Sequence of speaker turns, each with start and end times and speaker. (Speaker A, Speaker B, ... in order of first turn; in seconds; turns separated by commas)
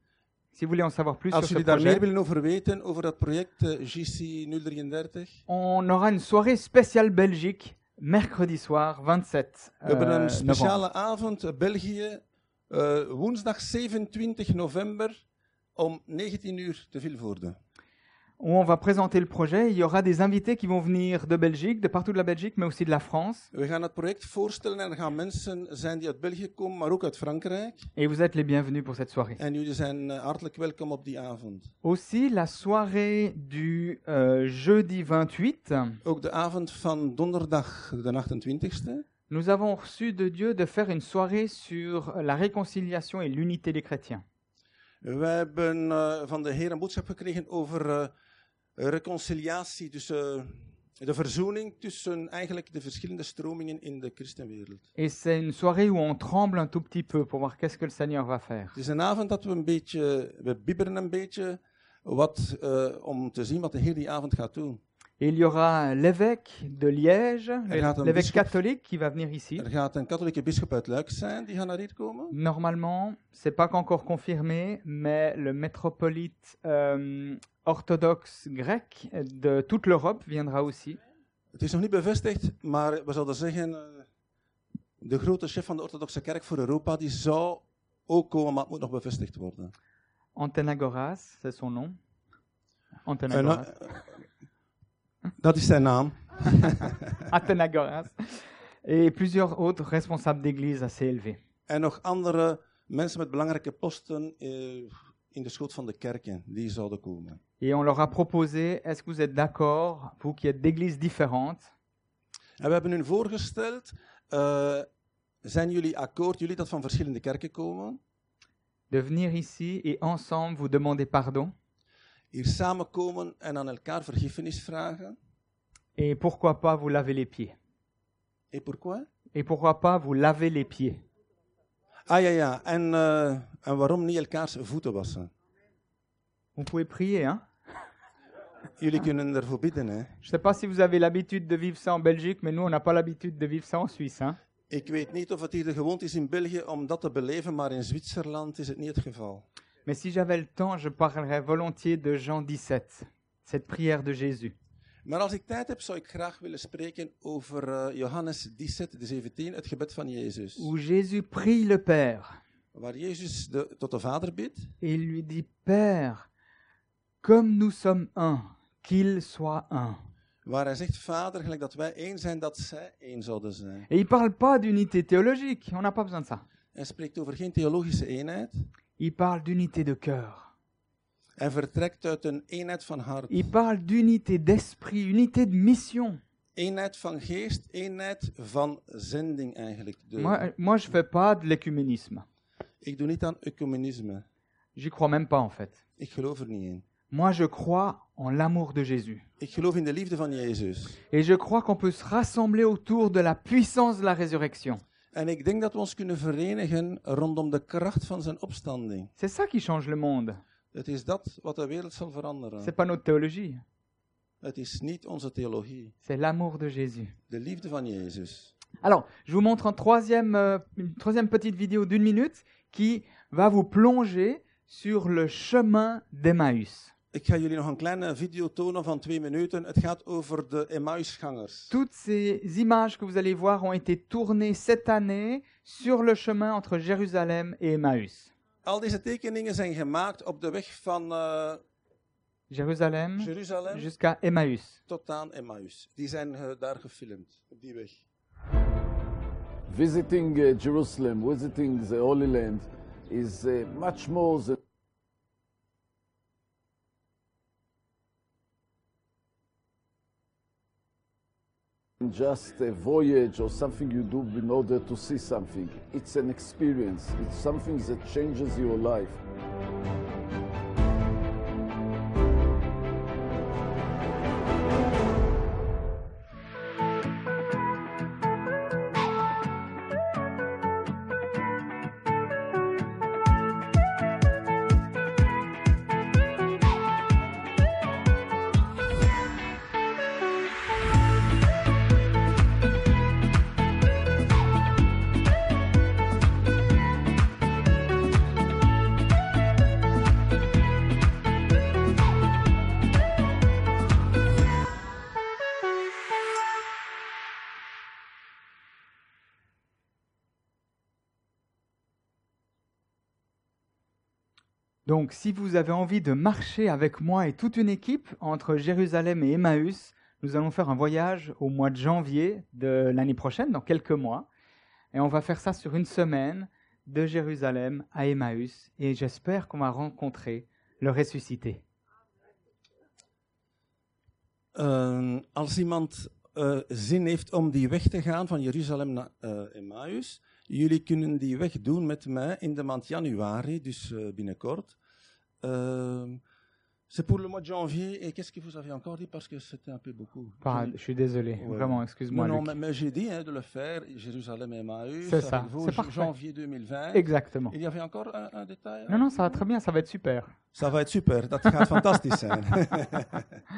Speaker A: 0.5-2.0, Speaker B: 1.3-5.4, Speaker A: 5.5-10.8, Speaker B: 9.8-15.2, Speaker B: 15.8-17.6, Speaker A: 18.4-23.5, Speaker B: 23.5-27.9, Speaker A: 28.0-29.4, Speaker B: 29.4-31.7, Speaker A: 31.8-36.0, Speaker B: 36.0-39.0, Speaker A: 39.3-44.2, Speaker B: 45.0-48.1, Speaker B: 48.8-54.9, Speaker A: 55.0-58.8, Speaker B: 58.7-64.8, Speaker A: 65.2-69.7, Speaker B: 67.7-68.5, Speaker B: 69.6-72.4, Speaker A: 72.3-81.0, Speaker B: 81.5-84.1, Speaker B: 85.0-89.7, Speaker A: 90.3-92.0, Speaker A: 93.1-93.8, Speaker B: 93.3-94.1, Speaker B: 95.4-97.3, Speaker A: 97.3-101.4, Speaker B: 101.7-107.4, Speaker A: 107.6-111.7, Speaker B: 112.6-114.9, Speaker B: 115.4-118.0, Speaker A: 118.9-121.5, Speaker B: 122.3-125.2, Speaker A: 126.0-127.5, Speaker B: 128.5-129.1, Speaker A: 129.3-131.0, Speaker B: 132.1-135.3, Speaker A: 136.6-137.4, Speaker B: 138.8-140.1, Speaker A: 140.2-144.4, Speaker B: 144.7-149.4, Speaker A: 149.9-154.5, Speaker B: 155.1-160.7, Speaker A: 160.6-162.4, Speaker B: 162.7-164.7, Speaker A: 164.8-166.3, Speaker A: 167.2-170.0, Speaker B: 170.4-173.9, Speaker A: 173.9-176.4, Speaker B: 176.7-178.7, Speaker A: 179.0-180.5, Speaker B: 181.4-183.5, Speaker A: 183.3-186.2, Speaker B: 186.6-190.4, Speaker A: 190.2-192.2, Speaker B: 192.8-194.2, Speaker A: 194.8-195.8, Speaker B: 196.0-196.8, Speaker A: 197.1-199.2, Speaker B: 199.4-201.0, Speaker A: 201.1-204.8, Speaker B: 205.1-209.1, Speaker A: 209.2-210.4, Speaker B: 210.7-212.7, Speaker A: 212.6-213.6, Speaker B: 214.4-215.9, Speaker A: 216.0-217.2, Speaker B: 217.3-218.5, Speaker A: 218.8-226.9, Speaker B: 227.1-231.7, Speaker A: 231.7-238.3, Speaker B: 238.7-241.6, Speaker A: 242.5-244.8, Speaker B: 243.2-243.9, Speaker B: 244.9-248.0, Speaker C: 249.7-254.6, Speaker C: 262.0-269.2, Speaker A: 314.9-324.3, Speaker A: 324.9-331.6, Speaker B: 334.5-344.8, Speaker B: 345.4-346.2, Speaker B: 346.9-350.8, Speaker A: 350.4-352.6, Speaker B: 351.4-359.4, Speaker A: 355.0-356.1, Speaker A: 356.9-357.6, Speaker A: 358.9-360.3, Speaker B: 360.6-363.3